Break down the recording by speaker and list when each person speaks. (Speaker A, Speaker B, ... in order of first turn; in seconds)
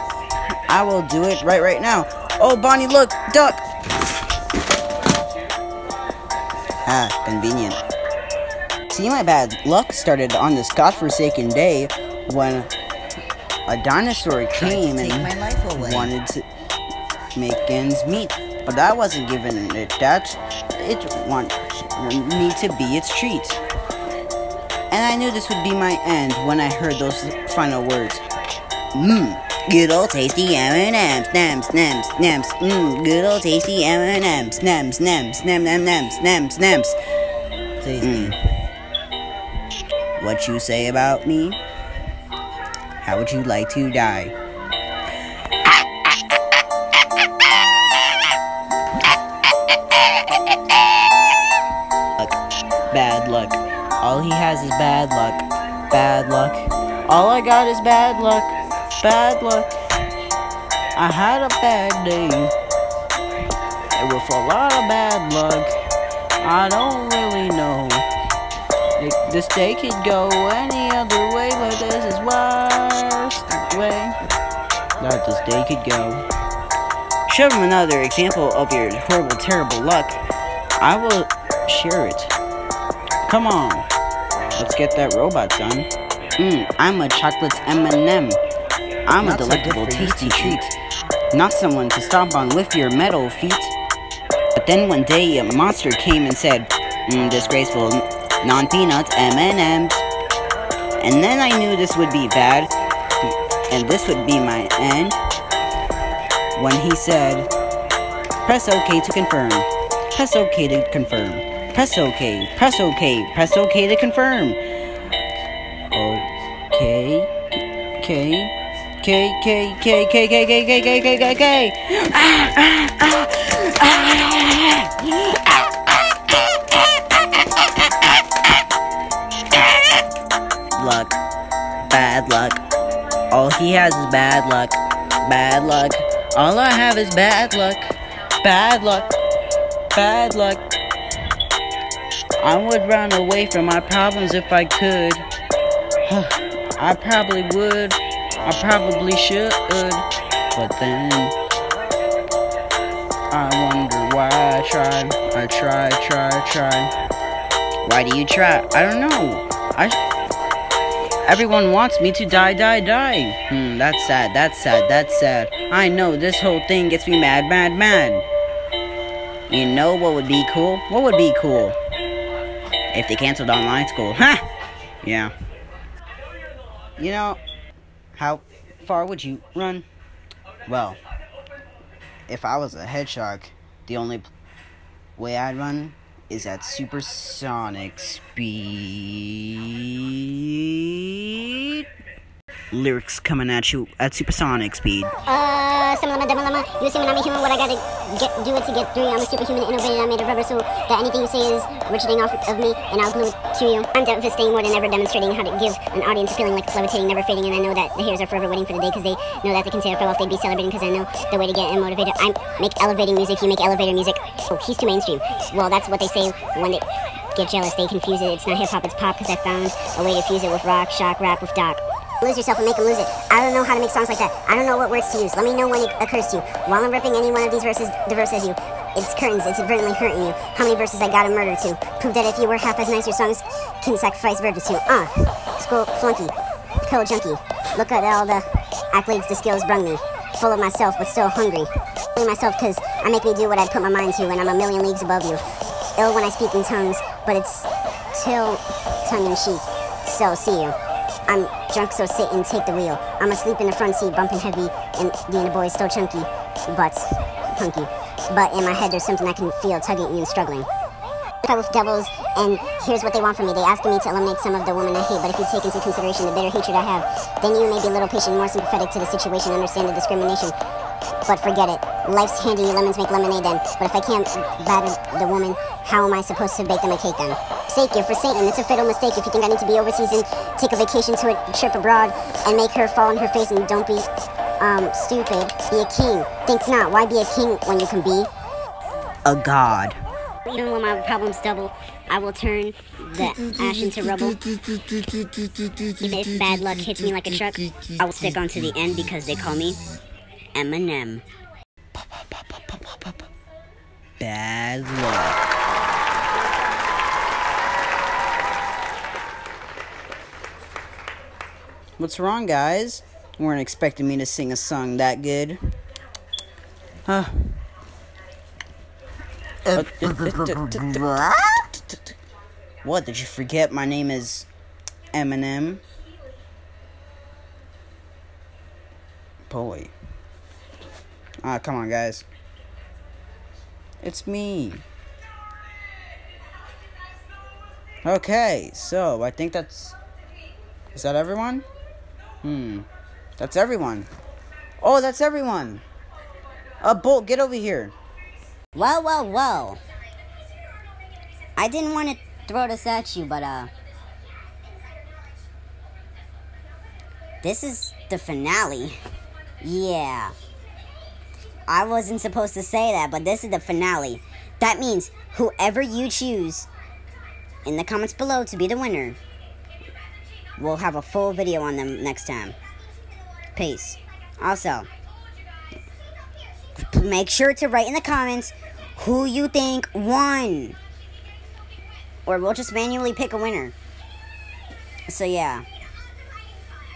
Speaker A: 0.7-3.7, 6.8-7.8, 8.9-12.7, 13.7-16.5, 17.4-23.6, 24.9-28.2, 28.9-37.0, 38.0-38.4, 40.2-41.6, 43.0-44.3, 45.6-46.1, 49.7-51.0, 52.9-59.8, 61.0-62.5, 63.9-65.7, 66.4-68.0, 69.0-74.2, 75.0-76.2, 77.3-80.2, 80.8-82.3, 83.3-83.9, 84.5-88.4, 89.1-90.7, 91.3-93.8, 94.5-100.0, 101.0-102.7, 103.7-105.2, 106.5-107.5, 108.5-114.6, 115.9-128.2, 129.5-129.9, 130.8-131.2, 131.9-132.6, 133.3-139.2, 139.9-140.6, 142.4-145.2, 146.0-151.4, 153.3-156.9, 157.8-160.0, 161.2-168.2, 169.5-171.8, 172.9-174.5, 175.0-175.3, 177.0-177.4, 178.2-179.9, 180.7-181.0, 182.3-184.3, 185.2-191.9, 192.7-195.1, 289.2-290.0, 302.0-303.2, 304.2-305.4, 312.0-315.7, 317.1-317.6, 319.8-321.0, 321.7-322.1, 322.8-324.5, 325.1-325.8, 329.5-329.9, 331.4-332.2, 334.0-334.8, 338.0-340.0, 340.9-341.6, 342.4-342.9, 343.4-344.1, 344.8-345.8, 346.8-347.9
Speaker B: 14.6-16.1, 37.8-38.3, 89.2-90.6, 298.0-299.8, 300.5-301.2, 319.7-321.6, 348.8-349.8, 351.6-353.7, 357.4-359.0, 359.6-360.3, 361.7-366.7, 367.7-369.2, 370.6-372.6, 373.6-374.9, 376.8-380.8, 382.2-383.8, 385.1-385.6
Speaker C: 195.3-236.3, 236.8-245.4, 246.0-250.8, 251.3-260.7, 261.4-270.5, 271.3-284.1, 284.6-288.3, 290.5-294.4, 296.0-297.6